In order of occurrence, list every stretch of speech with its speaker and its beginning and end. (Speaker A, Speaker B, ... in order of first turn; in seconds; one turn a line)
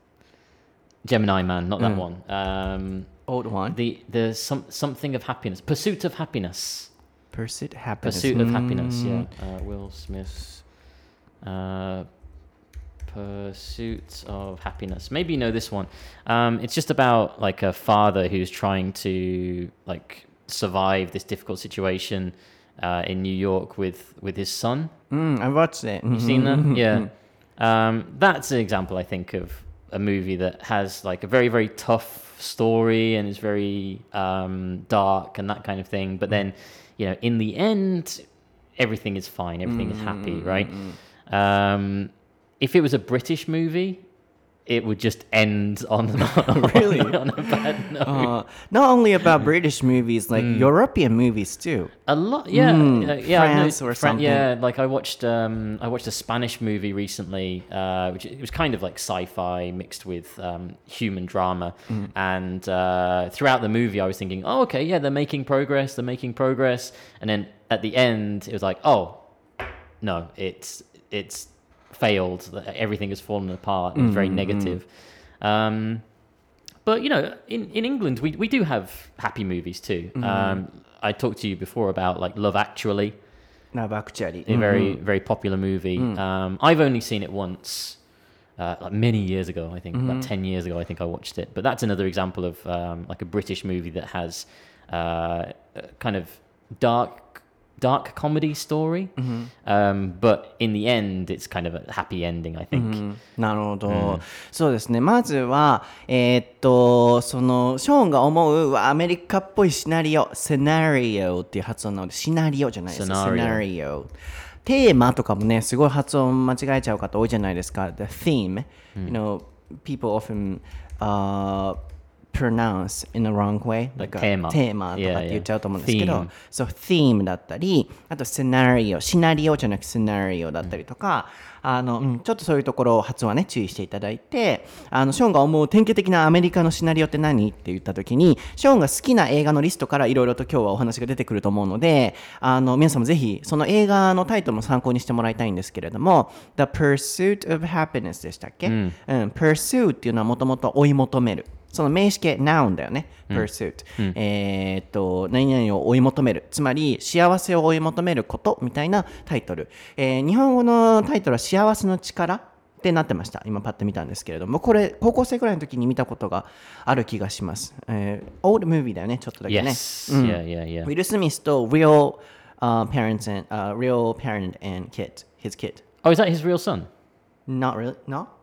Speaker A: 1.0-7.0
Speaker B: 3.3-3.8
Speaker B: 7.3-9.3
Speaker A: 8.0-12.2
Speaker A: 13.1-24.9
Speaker B: 25.1-27.1
Speaker A: 26.1-44.1
Speaker B: 39.6-41.0
Speaker A: 44.7-48.3
Speaker B: 46.5-52.0
Speaker A: 50.4-50.7
Speaker A: 52.1-69.4
Speaker B: 52.5-54.5
Speaker A: 70.0-76.1
Speaker B: 74.0-74.8
Speaker A: 76.8-83.2
Speaker B: 80.2-80.6
Speaker B: 83.7-85.0
Speaker A: 84.5-103.0
Speaker B: 89.9-90.3
Speaker B: 99.2-99.5
Speaker B: 102.7-114.1
Speaker A: 103.9-104.2
Speaker A: 112.9-113.6
Speaker B: 114.6-121.8
Speaker B: 122.3-175.8
Speaker A: 124.0-126.3
Speaker A: 148.7-149.0
Speaker A: 153.3-154.2
Speaker A: 169.5-170.9
Speaker A: 176.0-176.9
Speaker B: 177.5-178.3